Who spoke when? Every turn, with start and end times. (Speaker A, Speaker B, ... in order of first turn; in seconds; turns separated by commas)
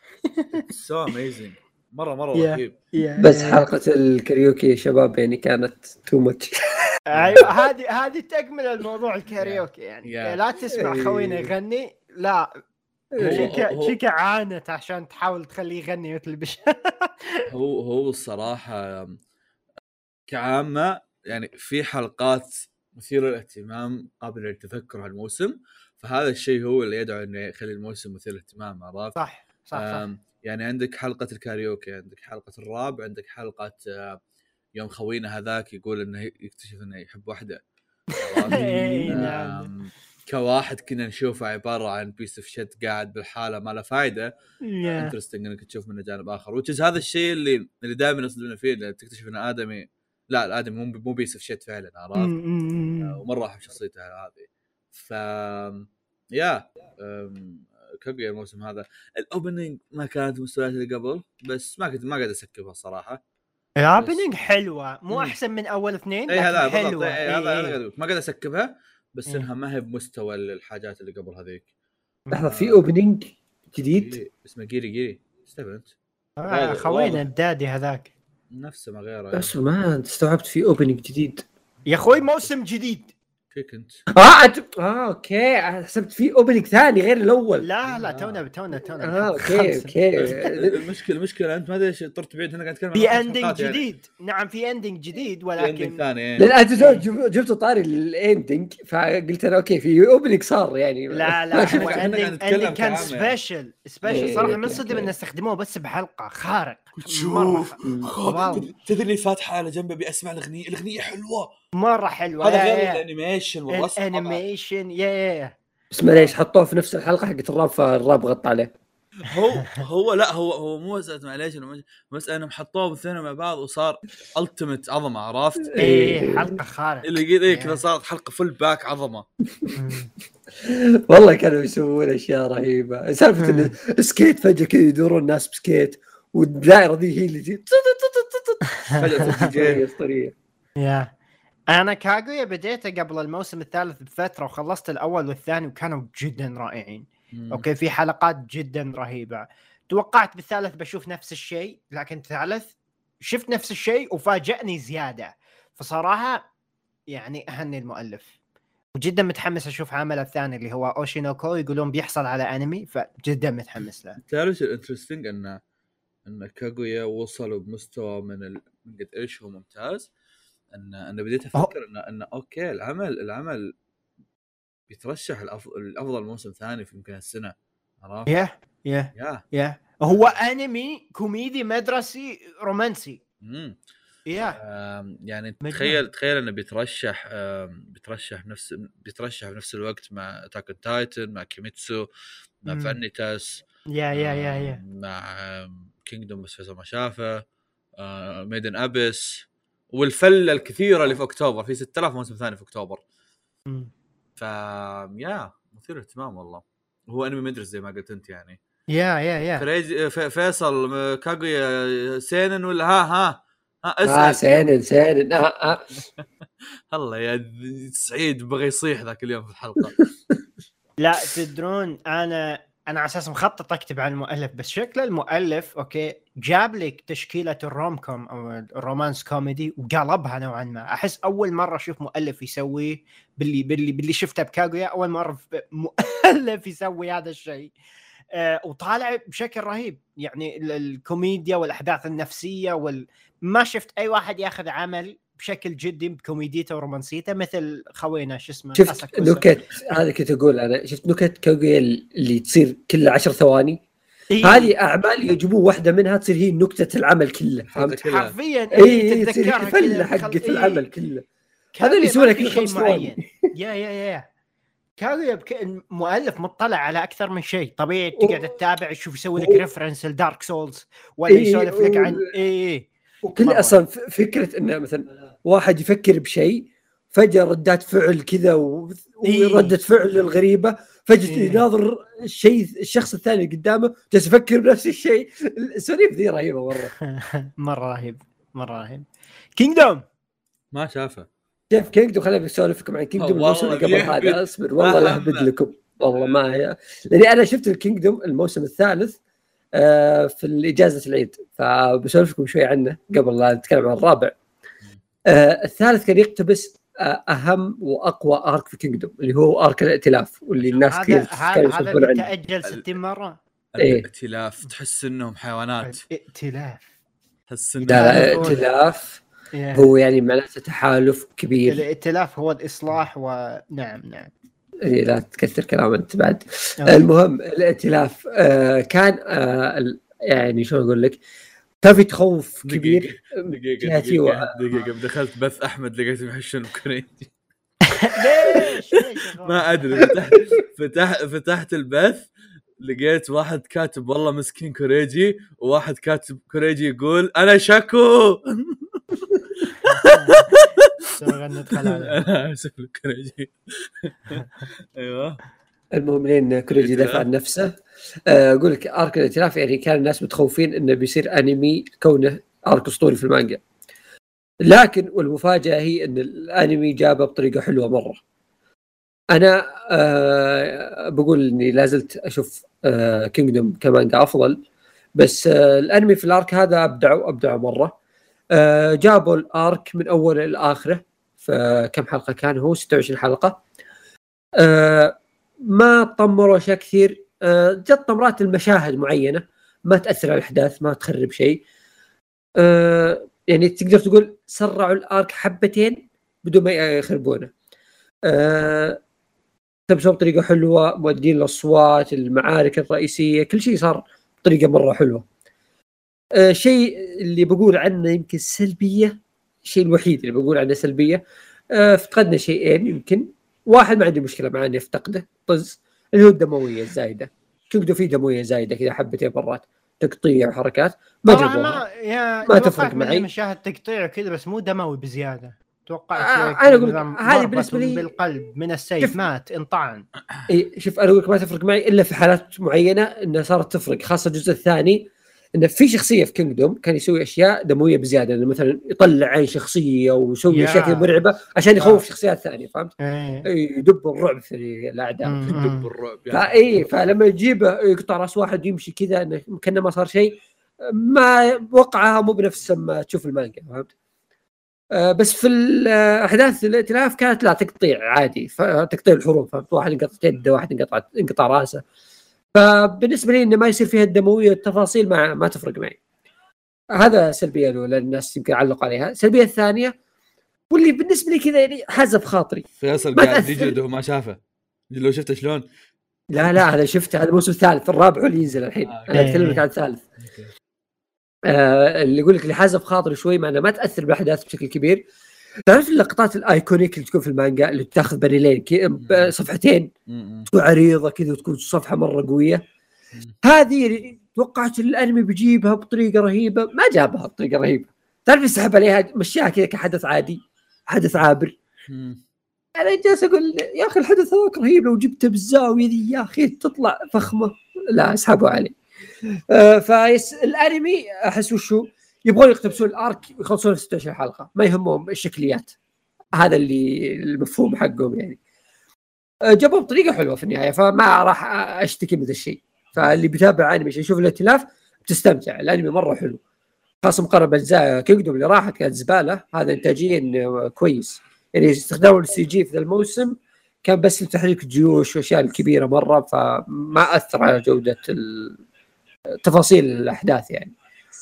Speaker A: 0.2-0.6, Speaker B: 0.5-2.7, Speaker A: 2.3-3.7, Speaker C: 3.2-6.8, Speaker A: 7.1-12.5, Speaker B: 7.2-7.5, Speaker B: 9.4-10.4, Speaker C: 10.7-11.5, Speaker C: 13.1-13.5, Speaker B: 13.2-14.0, Speaker A: 13.2-17.5, Speaker B: 17.5-19.2, Speaker B: 20.3-29.1, Speaker A: 29.2-30.0, Speaker B: 29.7-34.2, Speaker B: 34.7-37.6, Speaker A: 38.1-39.7, Speaker B: 38.2-44.3, Speaker C: 38.6-39.2, Speaker A: 44.6-45.1, Speaker B: 44.8-52.3, Speaker A: 52.2-53.2, Speaker B: 53.0-63.2, Speaker A: 63.8-67.8, Speaker B: 64.0-64.2, Speaker B: 65.1-65.4, Speaker B: 66.3-71.7, Speaker C: 72.3-74.2, Speaker B: 72.5-72.8, Speaker B: 73.7-75.9, Speaker A: 76.4-78.1, Speaker B: 76.5-77.2, Speaker B: 78.5-79.5, Speaker C: 79.3-81.4, Speaker A: 81.9-83.1, Speaker B: 82.0-82.5, Speaker B: 83.5-84.0, Speaker C: 84.1-87.7, Speaker A: 87.6-89.9, Speaker B: 87.8-88.4, Speaker C: 88.9-90.8, Speaker B: 90.2-93.8, Speaker A: 92.9-96.0, Speaker B: 95.6-96.5, Speaker C: 96.4-102.1, Speaker A: 96.7-97.0, Speaker A: 101.1-108.7, Speaker B: 101.7-103.3, Speaker C: 104.1-105.1, Speaker B: 107.0-111.5, Speaker C: 107.8-108.1, Speaker A: 111.8-113.0, Speaker B: 112.4-114.4, Speaker A: 113.7-115.5, Speaker C: 115.9-118.7, Speaker B: 119.2-125.8, Speaker C: 125.7-126.5, Speaker A: 125.8-127.8, Speaker B: 127.0-129.3, Speaker A: 129.7-130.1, Speaker C: 130.6-140.3, Speaker A: 133.4-133.7, Speaker A: 138.9-139.5, Speaker B: 138.9-139.8, Speaker A: 140.8-141.1, Speaker A: 141.7-156.4, Speaker B: 147.3-147.7, Speaker A: 157.1-158.3, Speaker A: 159.0-164.2, Speaker B: 164.2-165.6, Speaker B: 166.2-170.1, Speaker B: 170.7-173.7, Speaker B: 174.9-178.3, Speaker A: 178.3-183.2, Speaker B: 179.1-179.4, Speaker B: 180.1-180.3, Speaker B: 183.4-183.8, Speaker A: 184.3-184.6, Speaker B: 184.6-192.1, Speaker A: 185.6-186.0, Speaker B: 192.6-197.4, Speaker A: 192.7-193.0, Speaker A: 193.9-194.8, Speaker B: 198.0-203.0, Speaker B: 204.4-208.6, Speaker A: 208.9-209.7, Speaker B: 209.6-214.7, Speaker C: 214.1-215.9, Speaker B: 216.9-219.9, Speaker C: 219.9-220.4, Speaker A: 221.0-237.7, Speaker A: 238.3-249.6, Speaker C: 248.8-253.8, Speaker A: 254.3-254.7, Speaker C: 254.4-258.0, Speaker B: 257.7-258.3, Speaker A: 258.1-260.8, Speaker C: 258.7-261.3, Speaker A: 261.7-264.3, Speaker C: 261.8-263.5, Speaker A: 265.0-272.9, Speaker C: 268.1-268.5, Speaker C: 269.4-269.6, Speaker C: 271.3-272.3, Speaker C: 273.2-286.9, Speaker A: 273.4-273.8, Speaker A: 279.2-279.7, Speaker A: 281.3-281.6, Speaker A: 287.0-290.0, Speaker B: 290.7-291.3, Speaker C: 291.7-299.2, Speaker B: 293.2-295.5, Speaker B: 296.1-296.4, Speaker C: 299.8-304.3, Speaker C: 305.3-312.3, Speaker A: 310.9-313.3, Speaker B: 312.6-312.9, Speaker B: 313.7-316.0, Speaker C: 313.8-314.1, Speaker A: 315.8-316.8, Speaker B: 317.5-318.6, Speaker C: 317.8-319.2, Speaker A: 317.9-318.6, Speaker A: 319.5-319.9, Speaker C: 319.7-321.9, Speaker A: 321.7-324.3, Speaker C: 324.8-331.2, Speaker A: 326.8-327.1, Speaker C: 331.8-334.6, Speaker B: 332.6-337.3, Speaker A: 337.9-340.1, Speaker B: 338.5-342.3, Speaker B: 342.8-355.4, Speaker A: 349.9-350.5, Speaker A: 351.1-352.2, Speaker C: 355.9-363.6, Speaker B: 356.8-357.3, Speaker C: 364.6-368.2, Speaker C: 369.3-374.6, Speaker C: 375.2-377.9, Speaker C: 378.5-383.6, Speaker C: 384.6-391.6, Speaker C: 392.6-397.5, Speaker C: 398.3-399.0, Speaker C: 399.9-405.2, Speaker C: 406.3-411.2, Speaker C: 411.7-421.8, Speaker A: 421.3-430.1, Speaker C: 422.4-423.3, Speaker C: 426.1-428.1, Speaker C: 430.5-435.1, Speaker C: 435.6-442.9, Speaker A: 440.5-441.1, Speaker A: 441.8-442.0, Speaker A: 443.0-443.5, Speaker C: 443.4-445.6, Speaker A: 445.2-445.9, Speaker B: 445.5-446.8, Speaker C: 446.3-453.9, Speaker C: 454.9-461.8, Speaker C: 462.5-466.0, Speaker C: 466.9-469.9, Speaker C: 470.7-473.7, Speaker B: 472.8-474.4, Speaker B: 474.9-475.6, Speaker C: 476.3-480.0, Speaker B: 478.9-479.3, Speaker A: 479.1-479.6, Speaker B: 480.2-480.5, Speaker C: 481.5-485.0, Speaker C: 485.7-489.9, Speaker B: 489.0-489.3, Speaker B: 490.1-490.5, Speaker C: 490.5-492.6, Speaker C: 493.4-501.6, Speaker B: 501.9-502.2, Speaker C: 502.8-508.8, Speaker C: 509.3-515.7, Speaker C: 516.4-518.4, Speaker C: 519.5-526.4, Speaker C: 527.0-538.6, Speaker C: 539.4-540.7